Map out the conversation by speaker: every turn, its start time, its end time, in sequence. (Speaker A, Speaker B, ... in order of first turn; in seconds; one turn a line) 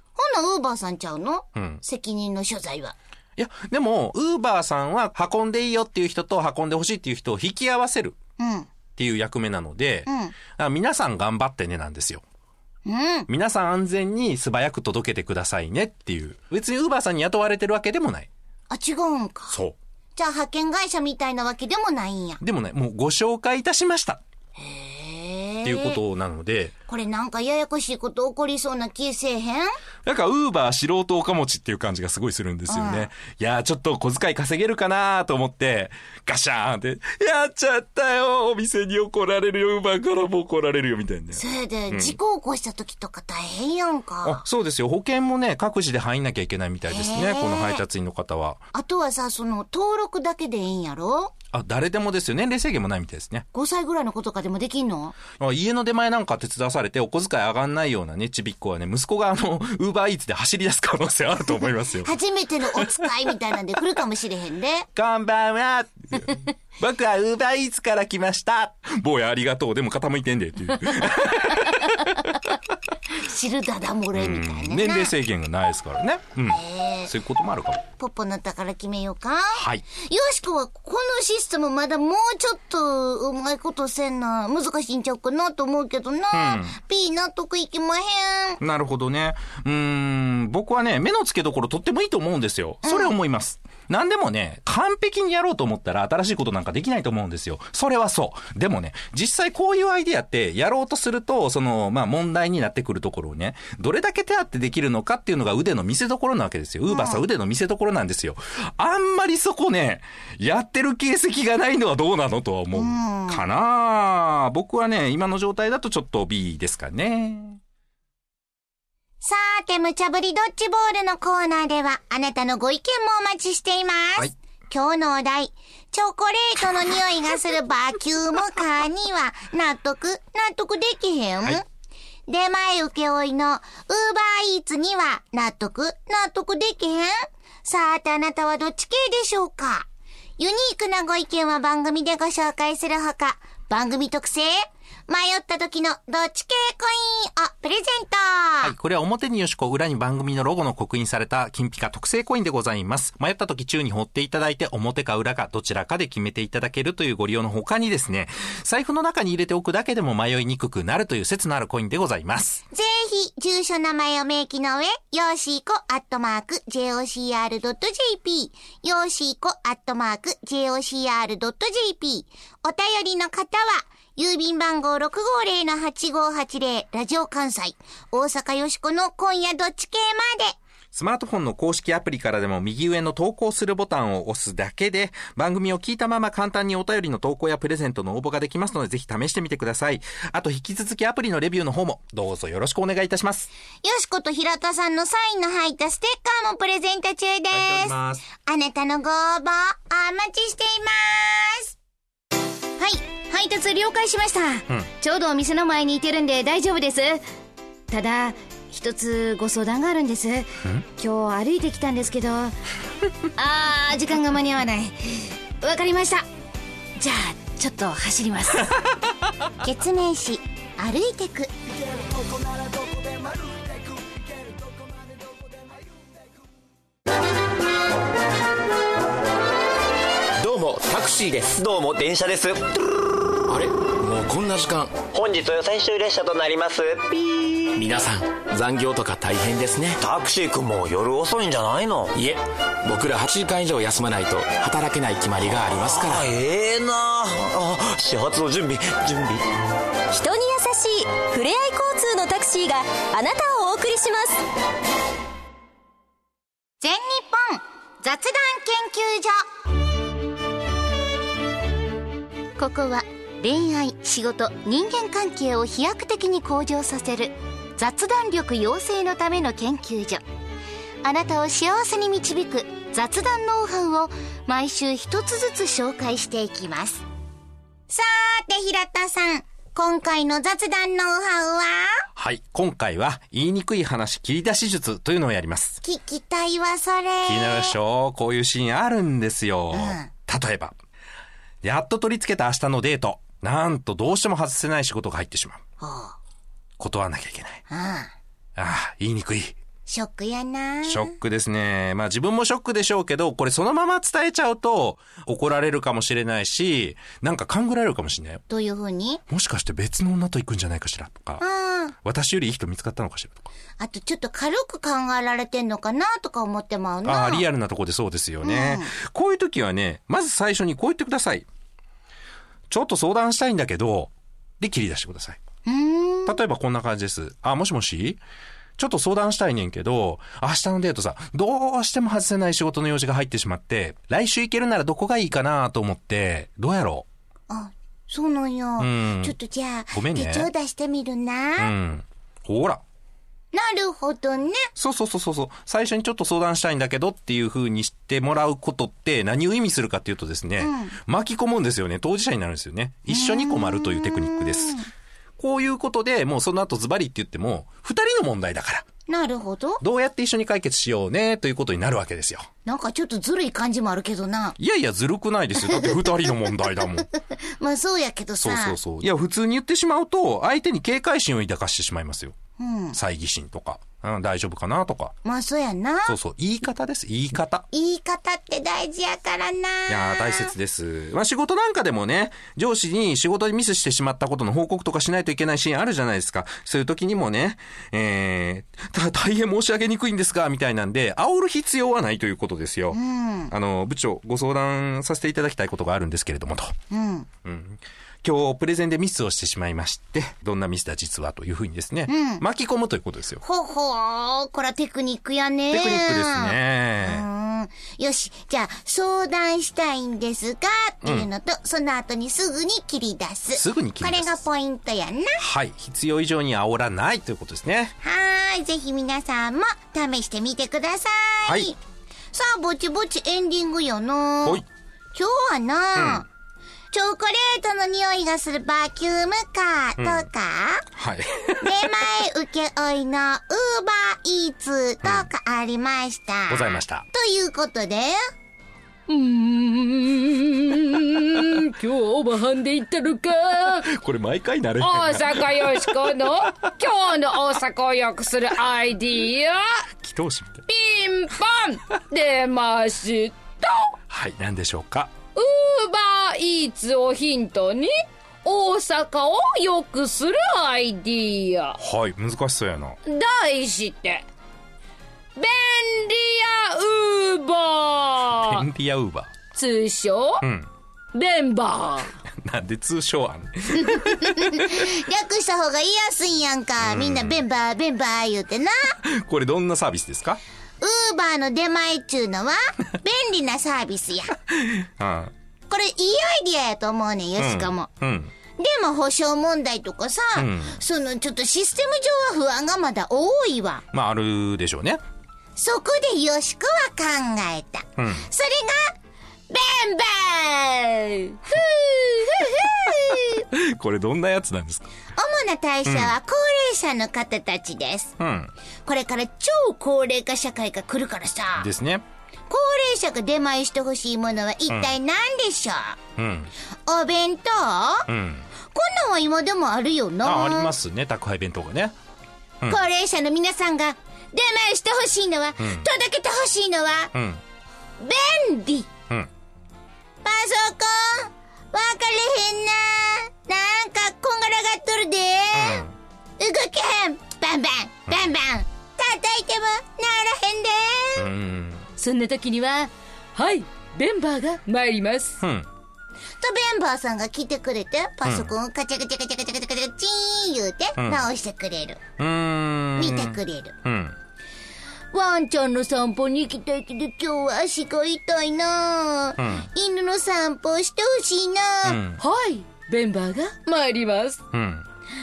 Speaker A: 0.1-3.0
Speaker B: 1.6-1.8
Speaker B: 3.4-8.2
Speaker A: 8.4-8.7
Speaker B: 8.9-12.2
Speaker A: 10.1-10.3
Speaker A: 12.8-13.3
Speaker B: 13.3-18.3
Speaker A: 18.7-19.6
Speaker B: 19.5-19.8
Speaker A: 20.1-22.4
Speaker B: 22.4-24.2
Speaker A: 24.6-26.0
Speaker B: 25.6-26.7
Speaker A: 26.9-29.7
Speaker B: 30.0-42.2
Speaker A: 32.7-33.1
Speaker A: 41.3-44.4
Speaker B: 44.2-48.6
Speaker A: 46.9-47.8
Speaker A: 48.7-51.3
Speaker B: 51.5-53.5
Speaker A: 53.5-55.2
Speaker B: 55.4-62.1
Speaker A: 62.0-64.9
Speaker B: 62.7-63.0
Speaker B: 64.9-72.5
Speaker A: 73.1-75.1
Speaker B: 74.1-77.8
Speaker A: 76.5-77.1
Speaker A: 78.0-88.6
Speaker B: 79.5-79.8
Speaker B: 86.3-86.8
Speaker B: 88.6-117.6
Speaker A: 92.8-93.1
Speaker A: 106.9-107.2
Speaker A: 112.7-113.4
Speaker A: 119.2-131.6
Speaker A: 132.3-139.9
Speaker A: 140.4-148.7
Speaker B: 148.6-162.6
Speaker A: 162.7-180.6
Speaker B: 180.9-193.5
Speaker A: 193.8-201.7
Speaker B: 197.5-198.2
Speaker A: 202.8-207.2
Speaker A: 207.9-212.5
Speaker A: 213.3-216.2
Speaker A: 217.0-218.7
Speaker A: 219.6-221.5
Speaker C: 230.4-231.6
Speaker D: 231.6-232.8
Speaker C: 233.5-235.0
Speaker D: 235.1-237.3
Speaker C: 237.7-240.0
Speaker D: 240.0-242.1
Speaker C: 242.1-246.2
Speaker D: 245.9-249.4
Speaker E: 250.1-254.4
Speaker A: 256.8-259.4
Speaker A: 262.6-270.2
Speaker A: 271.0-277.0
Speaker A: 277.9-282.0
Speaker B: 282.1-285.8
Speaker A: 285.8-287.8
Speaker B: 287.2-290.8
Speaker A: 289.7-290.1
Speaker B: 291.6-295.6
Speaker A: 295.8-296.2
Speaker B: 296.8-297.6
Speaker A: 297.7-298.1
Speaker B: 298.6-299.6
Speaker A: 299.9-301.1
Speaker B: 300.8-308.4
Speaker A: 308.5-309.2
Speaker B: 309.3-311.4
Speaker A: 311.4-311.9
Speaker B: 312.0-313.5
Speaker A: 313.8-317.5
Speaker B: 317.0-321.4
Speaker A: 318.4-318.9
Speaker B: 322.7-325.4
Speaker A: 325.6-326.4
Speaker B: 326.2-328.2
Speaker B: 328.8-337.1
Speaker A: 337.5-341.7
Speaker B: 338.8-339.4
Speaker B: 339.9-340.5
Speaker B: 341.6-342.8
Speaker A: 343.5-344.7
Speaker B: 344.8-354.8
Speaker A: 350.6-350.9
Speaker A: 353.1-354.9
Speaker B: 355.4-358.9
Speaker A: 359.1-359.8
Speaker B: 359.8-362.5
Speaker A: 362.6-364.6
Speaker B: 364.6-367.1
Speaker A: 365.7-366.0
Speaker A: 367.2-368.8
Speaker B: 368.4-372.4
Speaker A: 372.6-373.0
Speaker B: 372.9-375.1
Speaker A: 375.2-376.1
Speaker B: 376.1-377.6
Speaker A: 377.7-380.5
Speaker B: 379.9-393.0
Speaker A: 392.9-393.5
Speaker B: 393.5-396.8
Speaker A: 396.9-397.3
Speaker B: 397.4-403.4
Speaker A: 402.1-402.4
Speaker A: 403.4-415.4
Speaker B: 405.7-407.2
Speaker B: 413.5-414.4
Speaker B: 415.4-417.9
Speaker A: 418.0-421.8
Speaker B: 421.4-421.7
Speaker A: 422.3-424.6
Speaker A: 425.1-426.3
Speaker B: 425.9-426.2
Speaker A: 426.9-430.9
Speaker B: 430.0-430.2
Speaker B: 430.9-431.9
Speaker A: 431.6-438.2
Speaker B: 436.5-437.1
Speaker F: 439.1-443.9
Speaker B: 443.7-446.1
Speaker F: 444.8-449.8
Speaker B: 450.0-450.6
Speaker F: 450.7-453.9
Speaker B: 454.1-455.1
Speaker F: 455.3-461.8
Speaker B: 461.8-463.0
Speaker F: 463.1-464.2
Speaker F: 465.4-468.6
Speaker B: 468.4-469.4
Speaker F: 469.5-470.4
Speaker B: 470.4-470.7
Speaker F: 471.1-472.1
Speaker B: 472.3-474.9
Speaker A: 474.0-478.9
Speaker B: 476.8-477.4
Speaker B: 479.0-480.4
Speaker A: 480.8-484.4
Speaker B: 484.5-485.3
Speaker A: 485.7-487.9
Speaker B: 487.4-488.3
Speaker A: 488.6-493.8
Speaker B: 490.4-490.8
Speaker B: 493.9-495.0
Speaker A: 495.6-498.9
Speaker B: 498.0-498.2
Speaker A: 499.5-503.4
Speaker B: 503.5-504.9
Speaker A: 505.2-508.1
Speaker B: 505.9-506.1
Speaker B: 508.2-508.5
Speaker A: 508.9-511.7
Speaker B: 511.6-512.0
Speaker A: 512.5-516.0
Speaker B: 514.7-514.9
Speaker B: 516.2-516.5
Speaker A: 516.9-518.1
Speaker B: 518.1-518.5
Speaker A: 518.7-520.7
Speaker B: 520.2-522.0
Speaker A: 522.7-527.1
Speaker B: 525.6-525.9
Speaker B: 527.1-527.4
Speaker A: 528.0-528.9
Speaker A: 530.2-535.8
Speaker B: 535.5-535.9
Speaker A: 536.4-541.2
Speaker B: 541.2-541.9
Speaker F: 542.0-545.4
Speaker B: 545.4-545.7
Speaker A: 546.4-552.0
Speaker B: 548.2-548.5
Speaker B: 551.0-551.2
Speaker B: 552.2-554.1
Speaker A: 553.0-553.7
Speaker A: 555.1-562.0
Speaker B: 559.4-559.7
Speaker B: 561.8-562.2
Speaker F: 562.2-564.4
Speaker B: 564.5-564.9